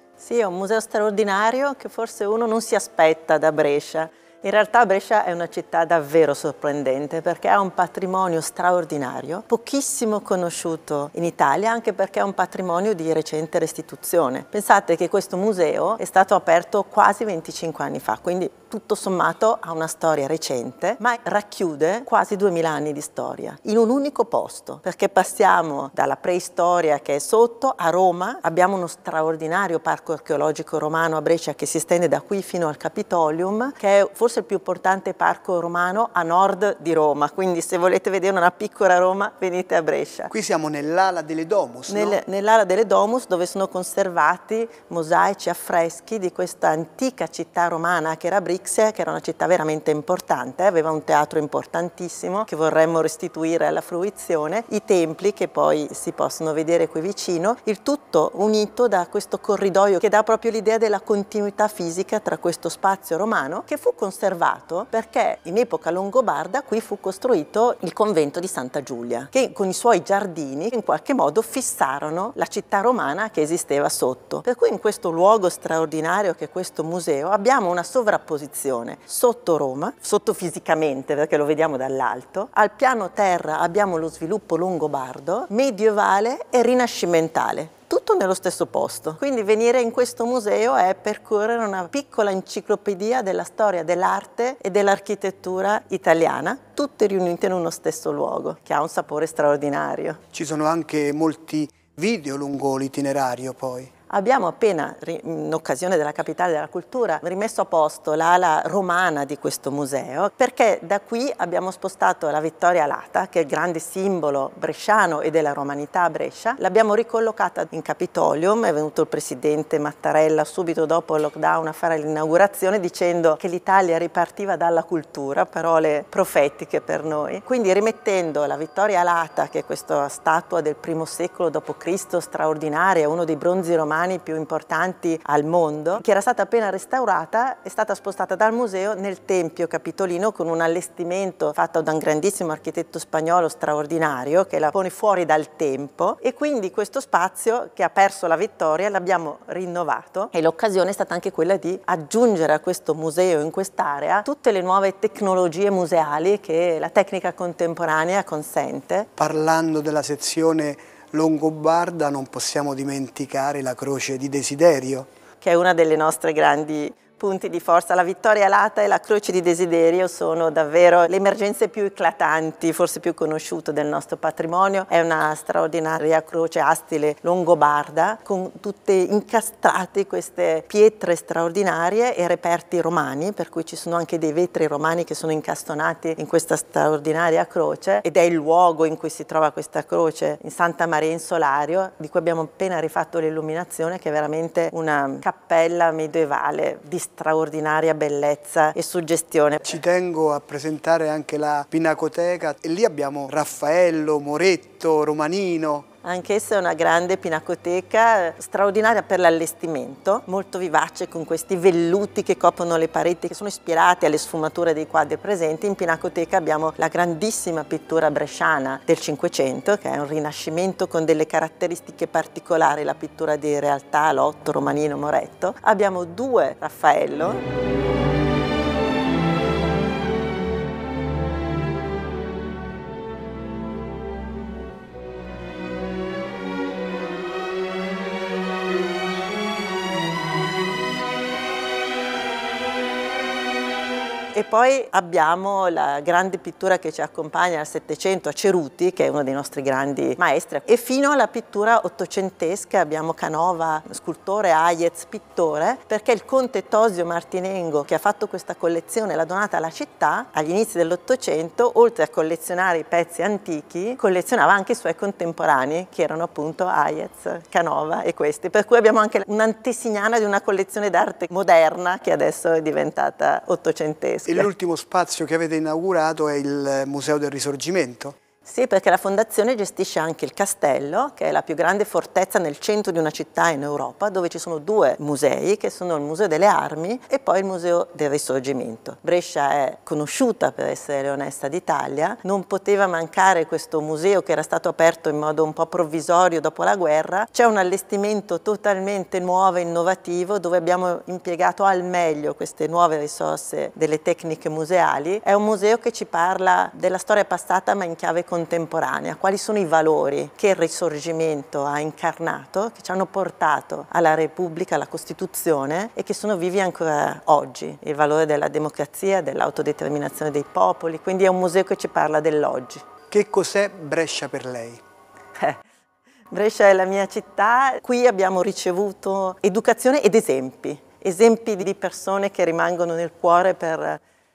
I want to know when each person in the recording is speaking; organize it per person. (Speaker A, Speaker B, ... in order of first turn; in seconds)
Speaker A: 0.2-40.3, 41.9-100.2, 104.1-159.1, 165.4-199.7, 206.0-227.4, 244.3-274.5, 278.4-322.9, 326.3-334.0
Speaker B: 40.3-42.2, 100.3-103.9, 159.2-165.1, 199.6-205.9, 274.3-278.1, 323.1-324.8